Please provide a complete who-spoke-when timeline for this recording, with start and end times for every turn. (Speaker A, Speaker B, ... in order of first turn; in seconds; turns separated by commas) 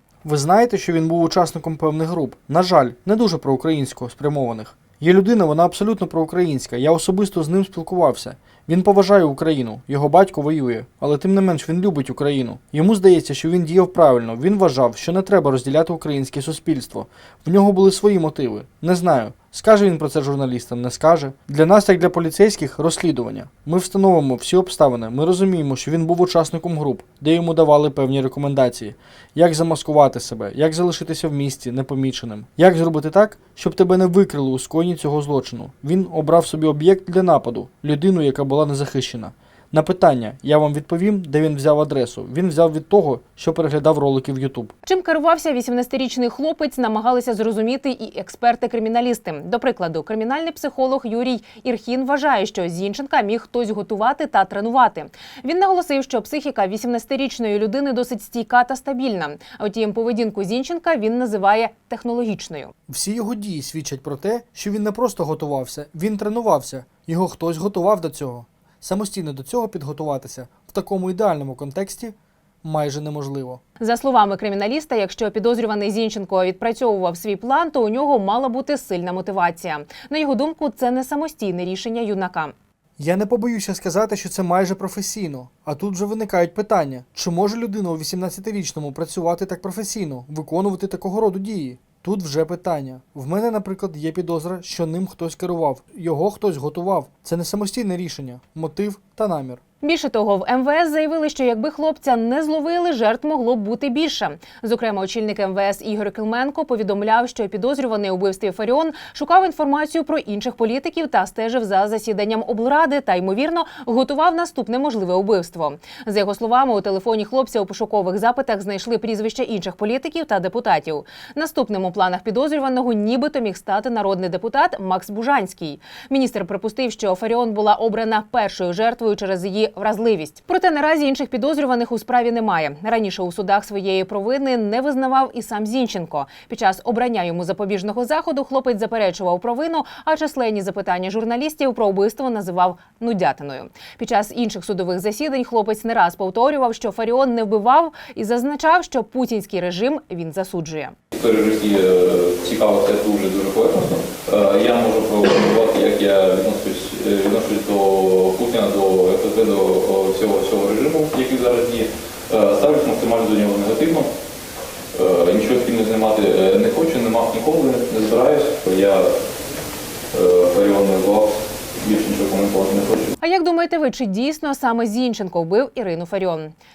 Speaker A: 0.2-44.7, Speaker B: 44.9-62.7, Speaker A: 62.9-73.6, Speaker B: 73.8-82.5, Speaker A: 83.0-99.6, Speaker B: 99.8-150.9, Speaker C: 151.1-164.1, Speaker C: 164.9-169.1, Speaker C: 170.1-173.1, Speaker B: 173.2-176.5